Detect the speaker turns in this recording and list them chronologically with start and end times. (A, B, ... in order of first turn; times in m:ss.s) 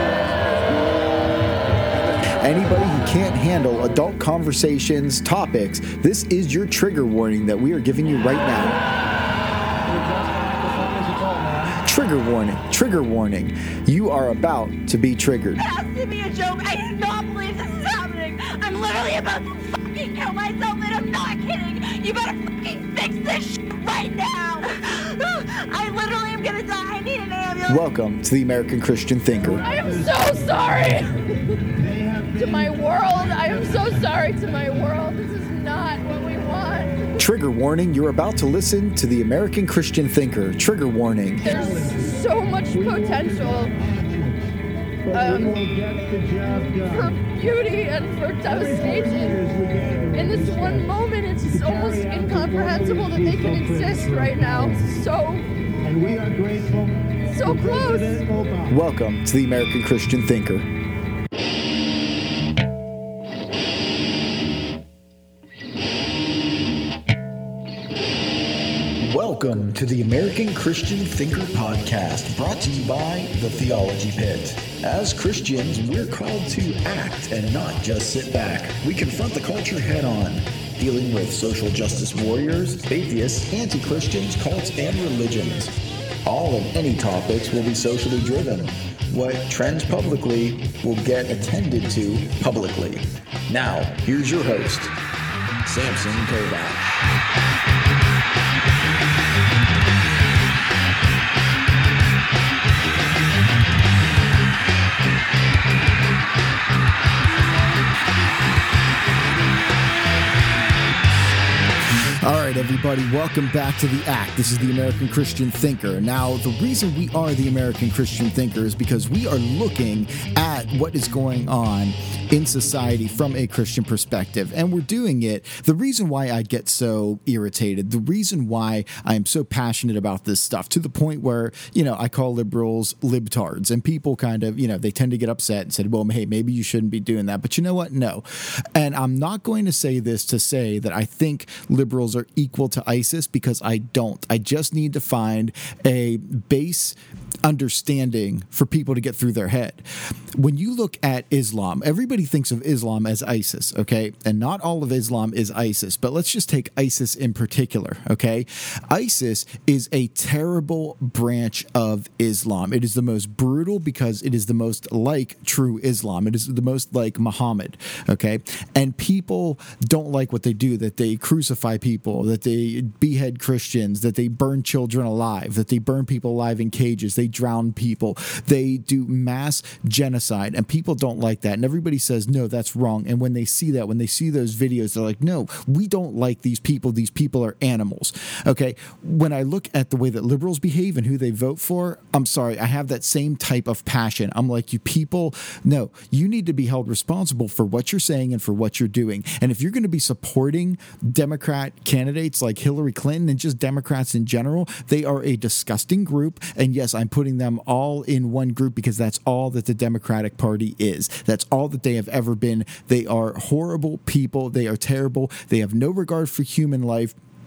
0:02.4-0:08.8 A
0:09.9-0:11.7 B
0:11.8-0:15.6 A
0:15.6-0:27.8 C
0:27.7-0:29.6 A
0:29.4-0:31.0 B
0:29.7-0:31.1 D
0:31.8-0:34.1 B
0:32.4-0:37.1 D
0:37.2-0:41.5 A
0:41.4-0:43.7 D
0:41.4-0:44.4 B
0:45.0-0:47.3 B
0:45.1-0:45.7 D
0:46.8-0:49.4 D
0:48.5-0:54.9 B
0:50.1-0:55.5 D
0:55.8-0:58.7 B
0:57.3-0:58.2 D
0:58.7-1:00.7 A
1:09.0-1:25.7 A
1:26.2-1:34.9 A
1:35.7-1:36.8 A
1:52.2-3:37.1 A